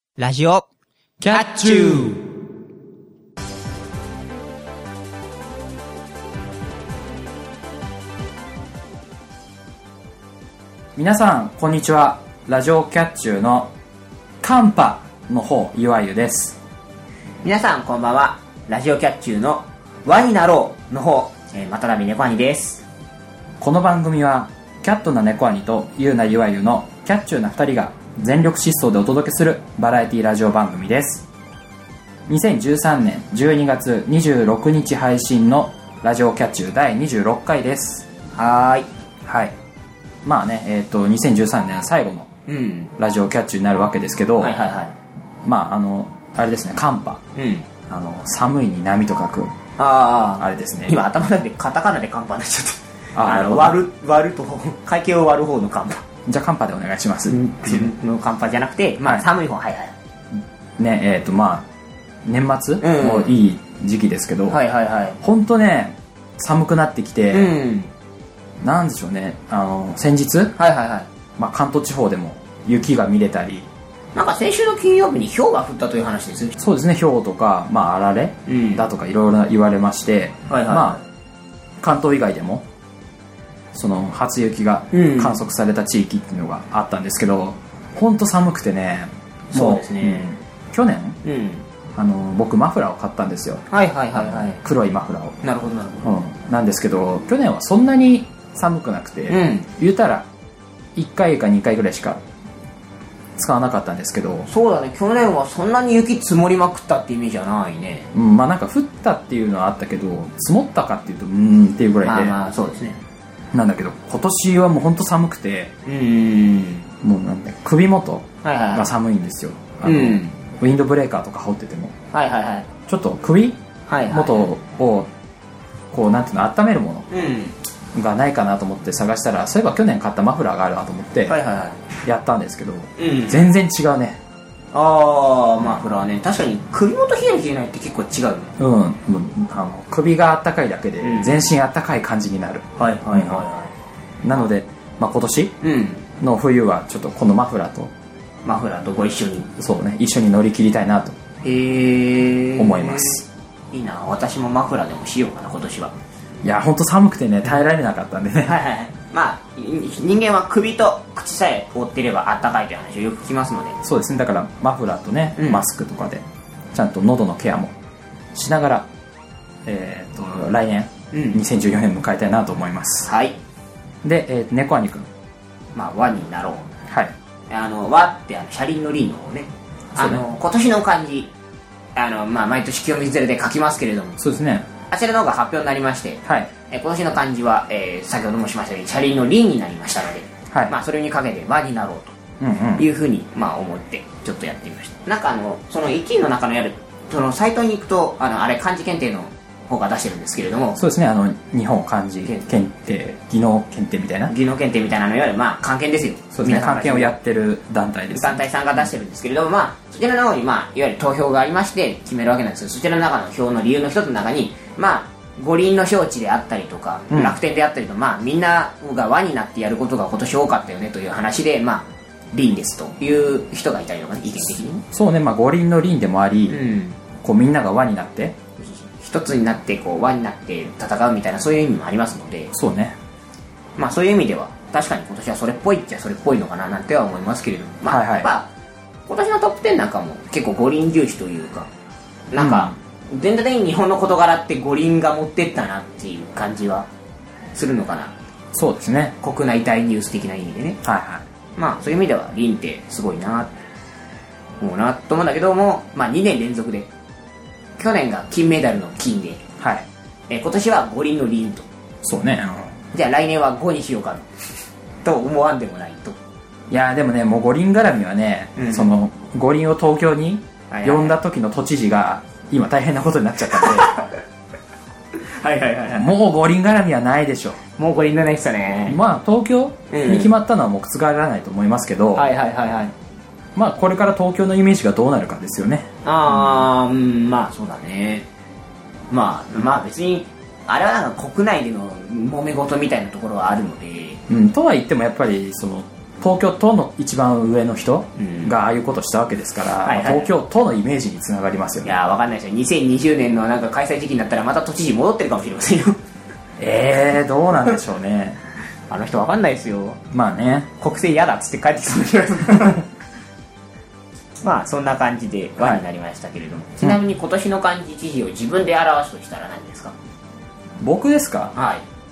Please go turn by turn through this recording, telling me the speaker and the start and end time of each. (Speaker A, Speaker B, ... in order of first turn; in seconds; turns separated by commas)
Speaker A: 0.2-0.7, Speaker B: 1.2-2.1, Speaker A: 1.3-2.2, Speaker B: 10.9-13.7, Speaker B: 14.4-16.6, Speaker A: 17.4-22.8, Speaker B: 23.6-31.3, Speaker B: 32.3-38.1, Speaker A: 38.4-38.9, Speaker B: 39.3-39.5, Speaker B: 40.2-42.3, Speaker A: 42.5-42.9, Speaker B: 43.0-44.6, Speaker A: 44.4-45.0, Speaker B: 45.4-47.2, Speaker A: 47.4-47.7, Speaker B: 47.9-49.5, Speaker A: 49.8-56.0, Speaker B: 50.4-51.0, Speaker B: 53.1-53.8, Speaker B: 56.3-57.9, Speaker A: 57.3-59.9, Speaker B: 60.8-61.7, Speaker B: 62.3-64.6, Speaker A: 62.8-63.3, Speaker A: 64.5-65.2, Speaker B: 65.2-67.5, Speaker A: 67.3-67.9, Speaker B: 68.6-70.5, Speaker A: 70.6-71.1, Speaker B: 71.4-73.7, Speaker A: 74.2-76.5, Speaker B: 76.6-81.0, Speaker A: 78.5-78.8, Speaker A: 80.5-81.0, Speaker B: 81.8-82.7, Speaker B: 83.7-91.2, Speaker A: 84.9-85.4, Speaker A: 89.5-90.2, Speaker A: 91.2-91.7, Speaker B: 92.0-95.4, Speaker A: 93.7-94.6, Speaker A: 95.4-96.1, Speaker B: 96.0-100.3, Speaker A: 99.3-99.7, Speaker B: 101.0-102.2, Speaker B: 103.4-104.5, Speaker A: 104.5-108.1, Speaker B: 108.1-112.4, Speaker A: 112.0-113.0, Speaker B: 113.5-115.7, Speaker A: 115.8-116.9, Speaker B: 117.0-121.9, Speaker A: 118.4-118.9, Speaker A: 119.8-120.4, Speaker A: 122.1-122.7, Speaker B: 122.9-123.6, Speaker A: 123.9-124.5, Speaker B: 124.1-125.1, Speaker B: 125.9-127.1, Speaker A: 127.1-127.6, Speaker B: 127.9-131.4, Speaker A: 131.3-131.9, Speaker B: 132.0-134.2, Speaker A: 133.0-133.4, Speaker A: 134.7-138.5, Speaker B: 138.6-143.4, Speaker A: 141.0-141.4, Speaker A: 142.8-143.7, Speaker B: 144.2-145.6, Speaker A: 145.6-146.0, Speaker B: 146.2-147.9, Speaker A: 148.4-149.5, Speaker B: 149.6-151.2, Speaker A: 151.4-155.9, Speaker B: 152.6-153.2, Speaker B: 156.4-158.6, Speaker A: 158.4-163.8, Speaker B: 163.8-167.7, Speaker A: 165.4-165.7, Speaker B: 168.3-168.9, Speaker B: 169.7-173.1, Speaker A: 171.1-171.4, Speaker A: 173.1-173.4, Speaker B: 174.0-175.1, Speaker A: 175.8-176.7, Speaker A: 177.5-181.3, Speaker B: 180.0-180.2, Speaker A: 182.0-184.2, Speaker B: 184.2-184.7, Speaker A: 184.9-192.2, Speaker B: 186.3-186.5, Speaker B: 192.4-192.9, Speaker A: 192.8-200.8, Speaker B: 200.8-204.3, Speaker A: 202.2-202.6, Speaker A: 204.3-207.2, Speaker B: 206.3-208.4, Speaker A: 208.1-224.8, Speaker B: 217.1-217.4, Speaker B: 224.9-226.6, Speaker A: 226.5-227.0, Speaker B: 227.2-228.4, Speaker A: 228.6-232.5, Speaker B: 232.5-233.0, Speaker A: 233.8-238.5, Speaker B: 237.9-238.3, Speaker A: 239.1-241.7, Speaker A: 242.3-246.9, Speaker B: 242.4-242.8, Speaker A: 247.5-248.1, Speaker B: 248.5-249.2, Speaker A: 249.2-250.8, Speaker B: 250.8-251.3, Speaker A: 251.6-253.5, Speaker A: 254.6-256.9, Speaker A: 257.8-259.4, Speaker B: 259.6-259.9, Speaker A: 260.3-261.7, Speaker B: 262.0-262.8, Speaker A: 262.9-264.3, Speaker A: 265.0-266.2, Speaker B: 266.7-274.0, Speaker A: 268.6-268.9, Speaker A: 270.7-271.2, Speaker A: 273.5-274.1, Speaker A: 275.3-276.1, Speaker B: 275.9-277.6, Speaker A: 277.8-279.0, Speaker B: 278.9-282.3, Speaker A: 279.9-280.3, Speaker A: 282.1-282.9, Speaker B: 283.6-286.6, Speaker A: 286.1-288.2, Speaker A: 289.1-294.2, Speaker B: 294.3-301.9, Speaker A: 298.2-298.6, Speaker A: 299.8-300.3, Speaker A: 301.8-306.0, Speaker B: 306.6-308.4, Speaker A: 308.9-310.0, Speaker B: 310.1-310.7, Speaker A: 310.8-312.9, Speaker A: 314.4-319.9, Speaker B: 320.8-321.5, Speaker A: 321.5-321.8